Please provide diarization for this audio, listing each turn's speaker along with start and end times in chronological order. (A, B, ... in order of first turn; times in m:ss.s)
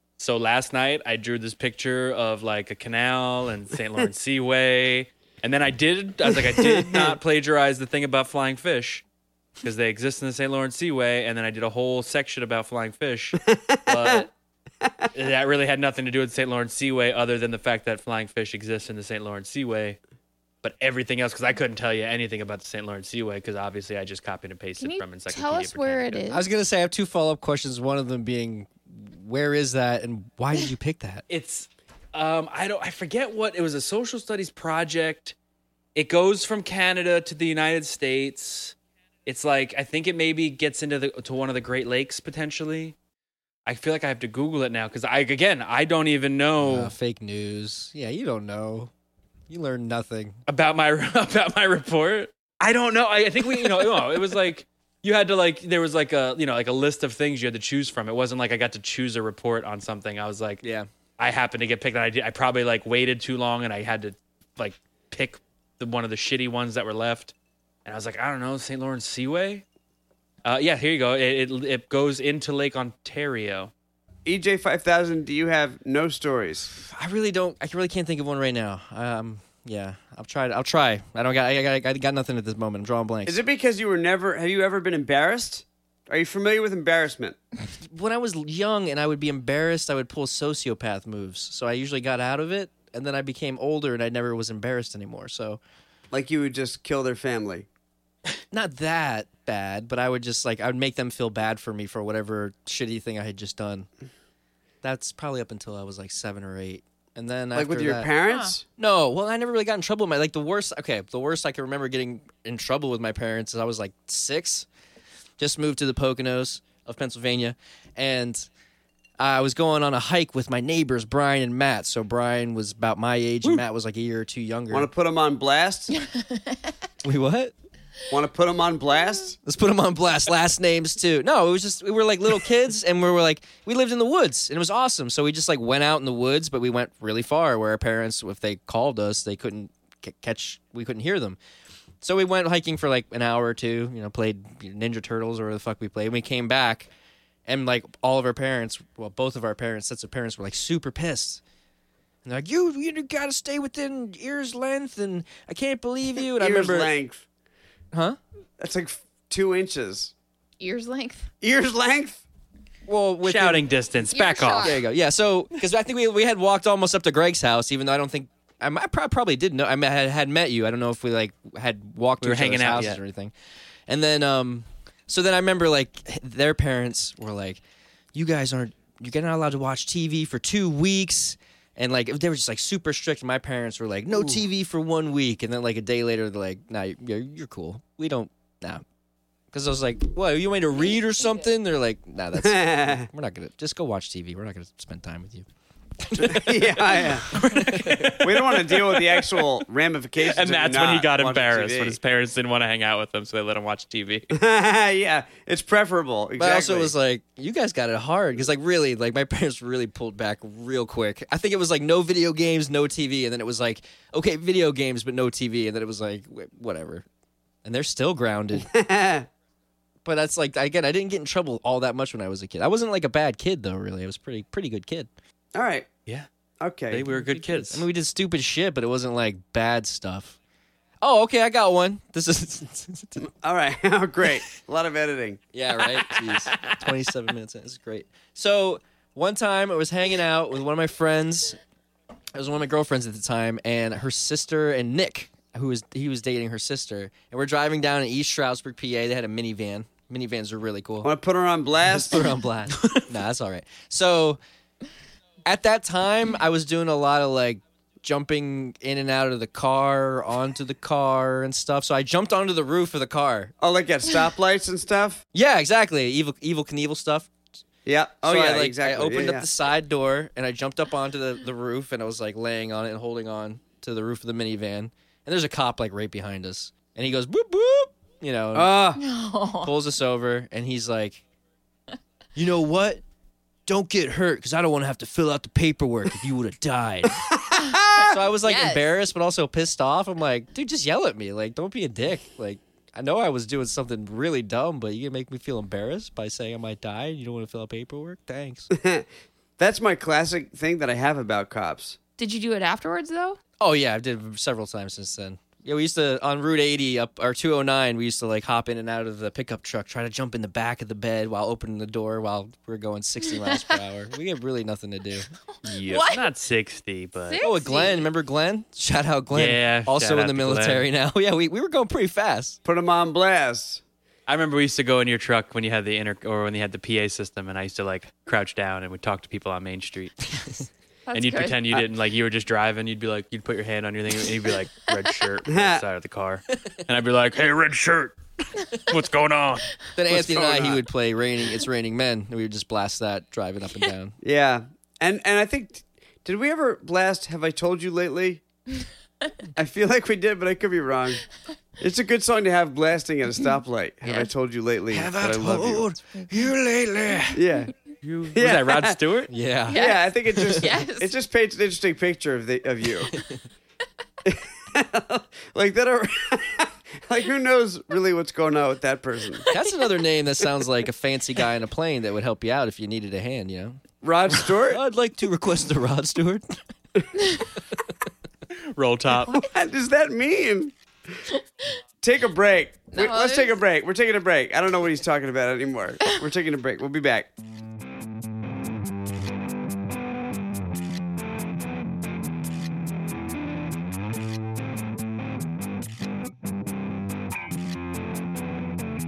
0:00.2-0:09.0 A
0:06.3-0:07.2 B
0:09.6-0:14.3 A
0:13.4-0:14.3 B
0:15.1-0:20.0 A
0:20.6-0:26.2 A
0:24.8-0:26.5 C
0:26.3-0:31.2 D
0:31.3-0:35.4 A
0:36.0-0:38.8 A
0:39.3-0:43.0 A
0:43.7-0:46.9 A
0:46.6-0:48.9 D
0:49.5-0:50.4 D
0:50.5-1:00.6 A
1:00.6-1:00.9 D
1:01.2-1:07.3 A
1:07.8-1:09.6 A
1:10.4-1:13.7 A
1:14.3-1:16.7 B
1:16.7-1:23.4 D
1:23.3-1:27.4 B
1:27.8-1:35.6 D
1:36.1-1:37.7 B
1:38.5-1:43.9 D
1:44.8-1:48.1 D
1:47.6-1:48.6 B
1:48.3-1:48.6 C
1:48.8-1:54.7 D
1:55.4-1:58.5 D
1:59.2-2:04.9 D
2:04.7-2:05.9 B
2:05.9-2:06.7 C
2:07.0-2:07.5 D
2:08.1-2:09.4 B
2:09.4-2:21.4 D
2:22.0-2:26.9 D
2:27.5-2:31.4 D
2:32.2-2:36.9 D
2:36.3-2:37.2 B
2:37.9-2:38.2 D
2:38.6-2:40.1 B
2:40.6-2:41.3 C
2:41.4-2:42.2 B
2:42.9-2:43.7 D
2:43.2-2:44.8 A
2:44.1-2:44.8 C
2:44.6-2:53.3 D
2:52.2-2:53.0 A
2:53.9-2:57.6 D
2:58.1-3:08.8 D
3:09.5-3:15.5 D
3:12.4-3:13.1 B
3:16.0-3:18.2 D
3:16.2-3:17.3 B
3:17.3-3:19.4 A
3:18.2-3:22.0 B
3:20.3-3:24.3 A
3:24.3-3:26.9 B
3:26.4-3:37.0 D
3:37.6-3:38.7 D
3:38.6-3:39.3 B
3:40.0-3:45.1 D
3:45.6-3:45.9 B
3:46.6-3:47.1 B
3:46.9-3:47.8 A
3:47.1-3:50.4 D
3:51.0-3:53.3 D
3:53.2-3:55.4 B
3:55.5-4:01.6 D
3:56.5-3:56.8 A
4:02.4-4:11.1 D
4:11.0-4:12.3 B
4:11.9-4:14.4 D
4:15.4-4:23.5 D
4:23.6-4:25.2 B
4:25.3-4:27.3 D
4:27.9-4:29.4 B
4:28.2-4:38.7 D
4:38.5-4:39.0 B
4:39.0-4:39.7 C
4:39.6-4:41.2 D
4:42.4-4:43.0 D
4:43.7-4:47.2 D
4:47.3-4:48.2 B
4:48.0-4:58.7 D
4:48.4-4:48.9 C
4:58.7-4:59.1 B
4:59.6-5:02.0 B
5:02.2-5:03.4 C
5:03.6-5:15.3 D
5:13.4-5:13.8 C
5:15.6-5:17.4 A
5:15.7-5:16.3 C
5:17.3-5:18.1 C
5:17.4-5:22.6 D
5:19.3-5:20.8 A
5:22.6-5:23.8 B
5:24.3-5:30.3 A
5:31.1-5:31.7 C
5:31.1-5:39.8 A
5:35.5-5:35.8 B
5:39.9-5:44.2 D
5:40.1-5:40.8 B
5:44.2-5:48.4 B
5:49.6-5:55.9 B
5:54.0-5:54.3 C
5:54.9-5:57.4 D
5:56.1-5:56.4 C
5:57.3-5:57.7 B
5:58.0-5:59.3 A
5:58.4-5:59.0 B
5:59.3-6:00.6 D
5:59.7-6:01.1 C
5:59.7-6:03.2 B
6:04.2-6:09.5 B
6:09.5-6:09.8 C
6:09.5-6:16.6 D
6:14.0-6:14.8 B
6:18.7-6:19.4 A
6:19.2-6:20.7 B
6:22.0-6:27.3 B
6:22.9-6:23.6 C